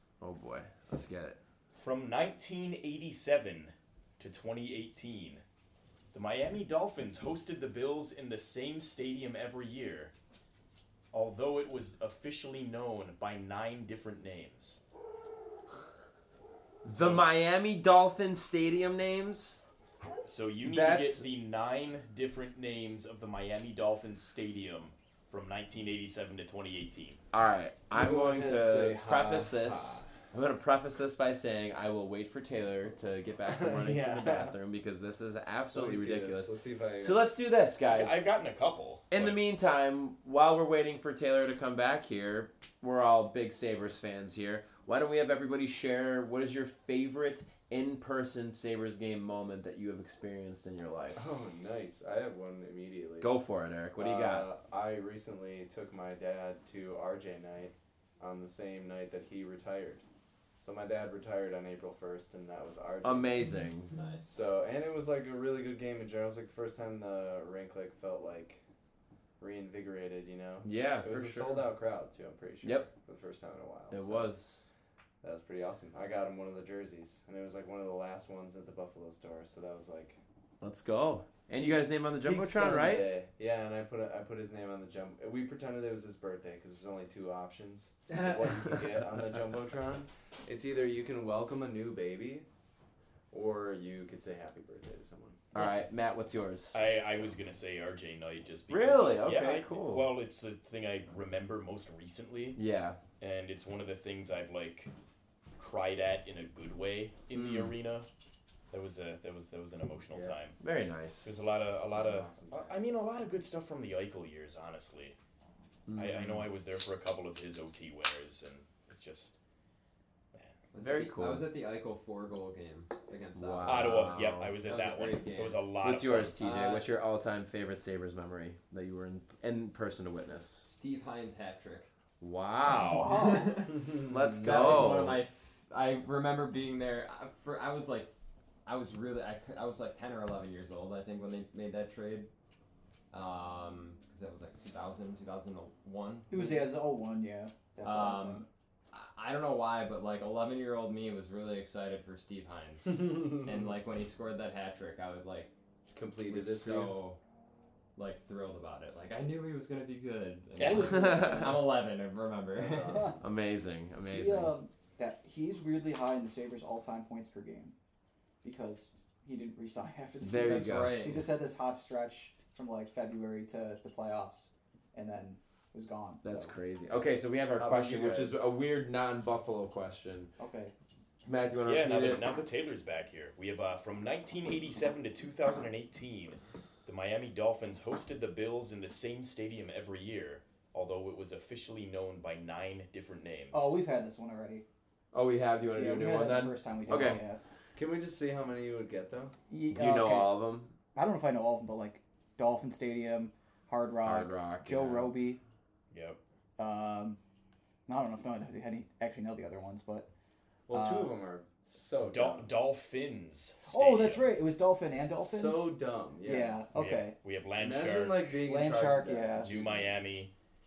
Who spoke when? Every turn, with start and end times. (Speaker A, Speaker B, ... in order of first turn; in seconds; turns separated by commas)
Speaker A: 0.2-1.4, Speaker B: 1.7-5.4, Speaker B: 6.1-10.1, Speaker B: 11.1-14.8, Speaker A: 16.8-19.6, Speaker B: 16.9-17.3, Speaker B: 20.2-27.2, Speaker A: 20.6-21.3, Speaker A: 27.3-38.2, Speaker C: 27.9-30.1, Speaker C: 33.4-34.5, Speaker C: 35.7-37.2, Speaker B: 37.9-39.4, Speaker A: 39.1-51.2, Speaker C: 51.1-53.3, Speaker A: 53.2-54.5, Speaker C: 54.0-60.0, Speaker C: 60.6-63.5, Speaker A: 63.0-63.9, Speaker D: 63.9-64.3, Speaker C: 64.3-68.6, Speaker C: 69.4-74.3, Speaker A: 70.6-71.7, Speaker A: 72.6-72.9, Speaker A: 73.9-74.7, Speaker C: 75.2-80.2, Speaker A: 80.6-83.2, Speaker C: 82.2-92.5, Speaker A: 88.3-89.0, Speaker C: 93.3-95.4, Speaker A: 95.5-96.8, Speaker B: 96.7-102.6, Speaker A: 98.7-100.1, Speaker A: 102.6-103.0, Speaker B: 103.2-104.9, Speaker B: 105.6-108.1, Speaker A: 107.3-107.7, Speaker B: 108.7-110.6, Speaker C: 110.1-110.4, Speaker A: 110.6-111.3, Speaker B: 111.2-115.2, Speaker C: 111.9-112.8, Speaker A: 115.9-116.5, Speaker B: 115.9-119.4, Speaker D: 120.7-126.9, Speaker A: 120.8-121.5, Speaker A: 123.3-124.6, Speaker B: 123.7-126.4, Speaker A: 125.8-130.7, Speaker D: 130.6-131.9, Speaker A: 132.2-133.3, Speaker E: 132.7-133.6, Speaker D: 132.9-138.1, Speaker C: 133.8-135.2, Speaker A: 134.0-135.2, Speaker D: 138.7-142.3, Speaker D: 143.1-146.7, Speaker E: 146.3-148.5, Speaker D: 147.8-155.5, Speaker C: 155.9-156.8, Speaker A: 155.9-157.0, Speaker D: 156.2-157.2, Speaker D: 158.0-163.2, Speaker B: 160.6-161.0, Speaker A: 160.7-161.8, Speaker E: 160.9-161.3, Speaker C: 162.6-163.2, Speaker A: 163.2-164.6, Speaker E: 164.1-167.7, Speaker E: 168.4-176.6, Speaker A: 170.2-171.1, Speaker D: 170.4-171.3, Speaker A: 176.2-180.3, Speaker C: 177.6-178.5, Speaker E: 180.4-180.7, Speaker A: 181.2-182.3, Speaker B: 181.6-193.8, Speaker E: 193.5-194.7, Speaker A: 195.1-197.2, Speaker E: 195.7-197.4, Speaker C: 197.8-199.3, Speaker E: 199.5-200.4, Speaker A: 199.7-200.8, Speaker E: 200.9-205.4, Speaker A: 204.0-205.2, Speaker B: 205.9-206.2, Speaker E: 206.6-207.2, Speaker E: 207.9-210.1, Speaker C: 210.7-212.5, Speaker E: 210.7-211.2, Speaker B: 212.1-214.4, Speaker E: 213.7-217.2, Speaker C: 215.1-216.6, Speaker B: 216.7-218.3, Speaker C: 217.6-220.0, Speaker E: 218.4-219.5, Speaker B: 219.4-220.3